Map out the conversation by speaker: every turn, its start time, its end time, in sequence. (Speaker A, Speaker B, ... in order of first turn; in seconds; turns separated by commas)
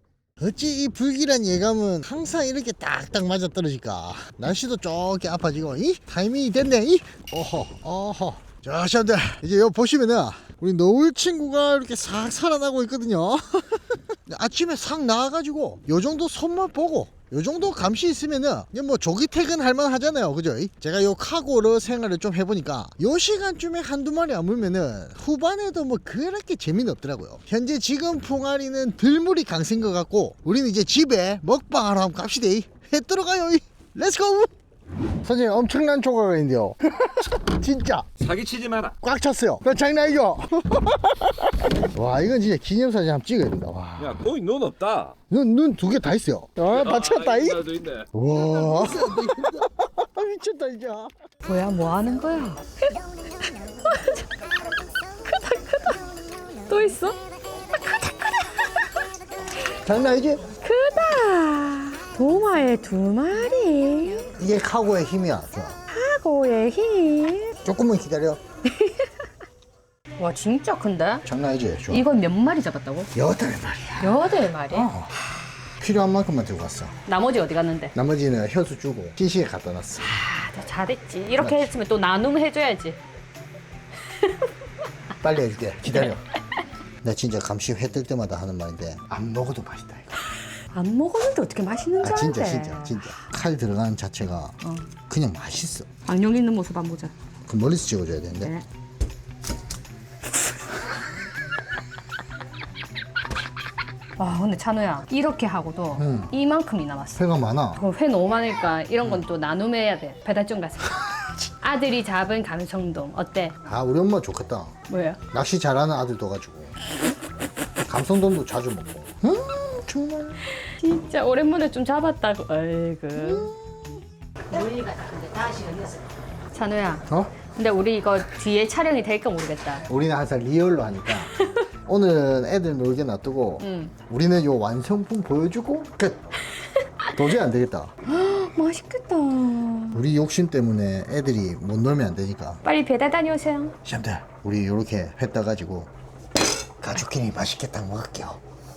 Speaker A: 0.4-34.5, Speaker A: 35.2-38.1, Speaker B: 38.2-39.0, Speaker A: 39.0-44.2, Speaker B: 44.0-45.1, Speaker A: 45.3-47.6, Speaker B: 46.7-48.1, Speaker A: 48.1-51.1, Speaker C: 51.5-54.4, Speaker C: 55.1-56.0, Speaker C: 56.7-57.2, Speaker C: 57.8-59.0, Speaker A: 59.8-60.5, Speaker C: 60.6-64.3, Speaker A: 64.4-65.8, Speaker C: 65.9-67.5, Speaker A: 67.6-68.4, Speaker C: 68.7-69.3, Speaker C: 70.2-71.2, Speaker A: 71.2-72.0, Speaker C: 71.9-73.1, Speaker A: 73.1-75.1, Speaker C: 74.0-74.9, Speaker A: 75.8-77.0, Speaker C: 77.0-77.9, Speaker A: 77.9-80.1, Speaker C: 80.0-83.0, Speaker A: 81.4-81.7, Speaker C: 84.1-84.5, Speaker A: 85.2-86.2, Speaker A: 87.0-90.1, Speaker C: 90.7-93.1, Speaker A: 92.0-94.5, Speaker A: 95.1-95.9, Speaker C: 96.0-97.1, Speaker A: 97.5-98.5, Speaker C: 104.2-107.2, Speaker A: 106.0-106.3, Speaker A: 107.2-107.8, Speaker C: 107.8-113.6, Speaker A: 113.6-114.8, Speaker C: 114.9-115.2, Speaker A: 115.3-116.8, Speaker A: 117.9-120.4, Speaker C: 120.6-123.5, Speaker A: 123.2-123.9, Speaker C: 124.5-129.8, Speaker A: 127.1-127.4, Speaker A: 129.9-131.3, Speaker A: 131.8-136.2, Speaker C: 133.6-133.9, Speaker C: 136.8-137.1, Speaker A: 137.1-137.9, Speaker C: 138.1-140.0, Speaker A: 139.9-142.6, Speaker C: 142.6-143.8, Speaker A: 143.8-145.9, Speaker A: 146.8-148.4